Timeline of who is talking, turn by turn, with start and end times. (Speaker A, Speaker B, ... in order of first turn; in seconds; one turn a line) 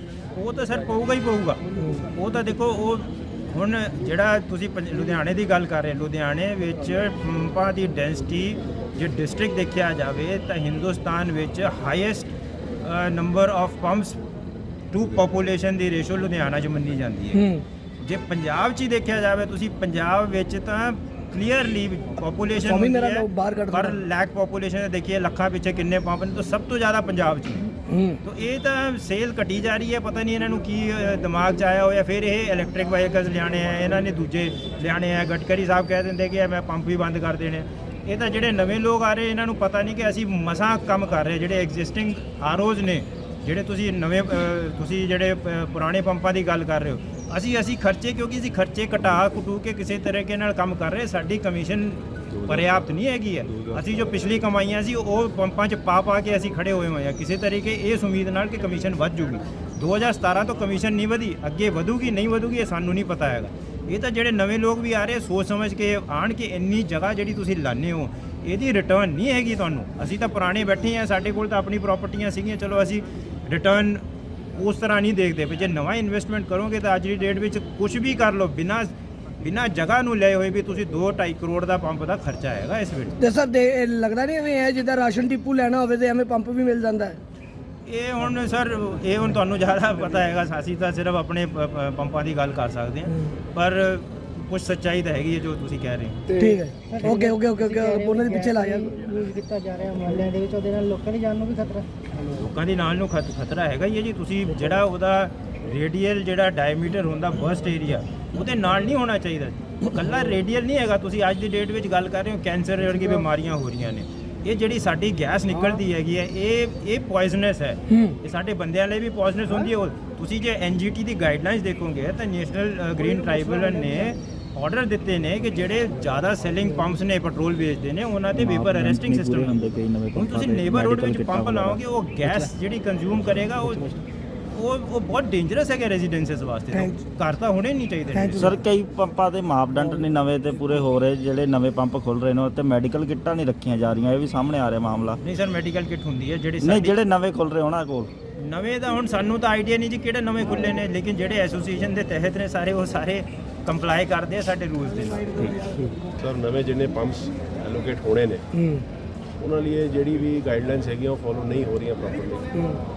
Speaker A: 0.4-1.6
Speaker B: 1.8-2.1
Speaker A: 2.1-14.2
Speaker A: 14.9-17.4
Speaker B: 17.3-17.6
Speaker A: 18.0-27.7
Speaker B: 22.6-24.0
Speaker B: 27.9-28.2
Speaker A: 28.2-74.0
Speaker C: 52.3-52.8
Speaker C: 53.5-53.8
Speaker A: 74.5-83.2
Speaker B: 83.2-87.2
Speaker A: 87.9-96.3
Speaker B: 96.4-98.9
Speaker D: 96.9-101.9
Speaker A: 102.4-129.6
Speaker B: 117.9-118.2
Speaker C: 128.3-132.4
Speaker A: 130.1-133.9
Speaker A: 134.6-138.5
Speaker B: 136.7-137.0
Speaker B: 138.1-138.5
Speaker C: 138.4-145.2
Speaker A: 145.2-147.0
Speaker C: 146.6-148.1
Speaker A: 148.4-155.3
Speaker C: 155.4-155.9
Speaker E: 156.2-158.5
Speaker B: 158.6-158.9
Speaker E: 159.4-162.5
Speaker B: 162.6-162.8